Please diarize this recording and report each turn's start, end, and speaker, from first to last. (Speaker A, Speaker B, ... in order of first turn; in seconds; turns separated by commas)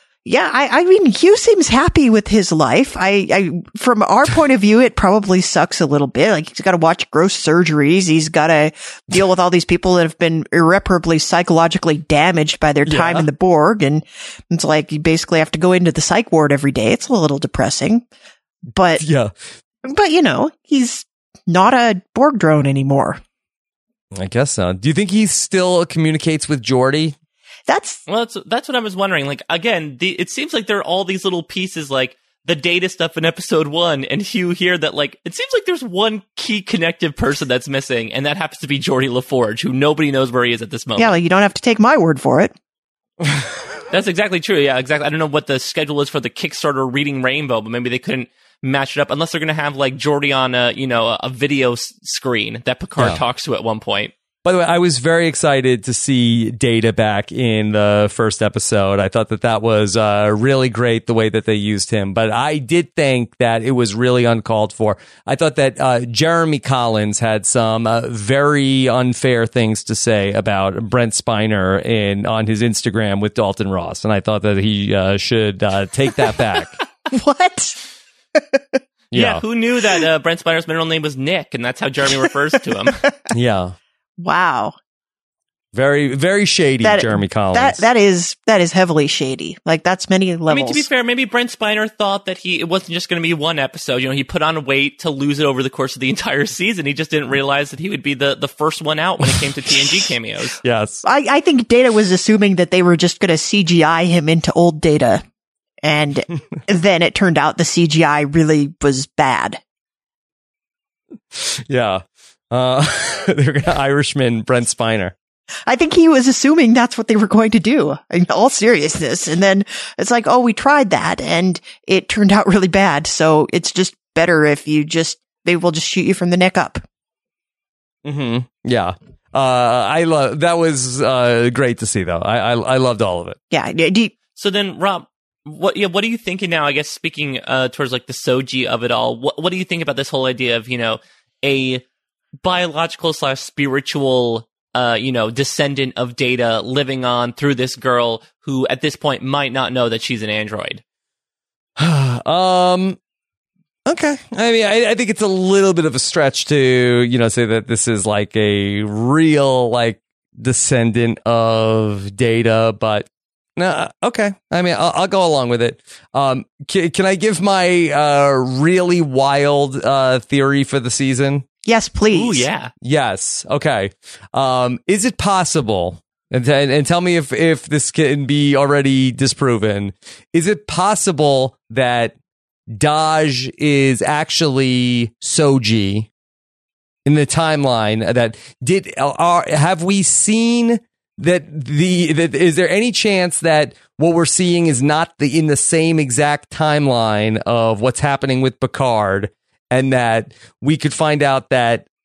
Speaker A: 0.3-18.1, Speaker B: 12.8-13.3, Speaker A: 18.7-19.0, Speaker B: 19.0-19.3, Speaker A: 19.8-23.2, Speaker B: 24.1-27.2, Speaker A: 27.7-28.0, Speaker C: 28.1-41.1, Speaker A: 41.0-42.5, Speaker C: 43.9-54.1, Speaker B: 54.4-76.8, Speaker A: 77.1-77.8, Speaker A: 78.4-78.6, Speaker B: 79.1-79.4, Speaker C: 79.1-83.0, Speaker B: 83.3-83.8, Speaker A: 84.2-84.8, Speaker B: 85.7-87.8, Speaker A: 86.8-90.8, Speaker C: 90.5-100.6, Speaker B: 100.6-101.0, Speaker A: 101.0-105.2, Speaker A: 105.8-109.6, Speaker B: 111.3-115.1, Speaker A: 115.7-126.8, Speaker B: 128.1-133.4, Speaker A: 133.5-134.1, Speaker C: 134.3-141.8, Speaker C: 142.4-150.8, Speaker B: 151.8-153.0, Speaker B: 153.9-171.4, Speaker A: 171.7-172.5, Speaker C: 172.1-172.7, Speaker B: 172.8-182.2, Speaker B: 182.7-186.1, Speaker B: 187.1-201.9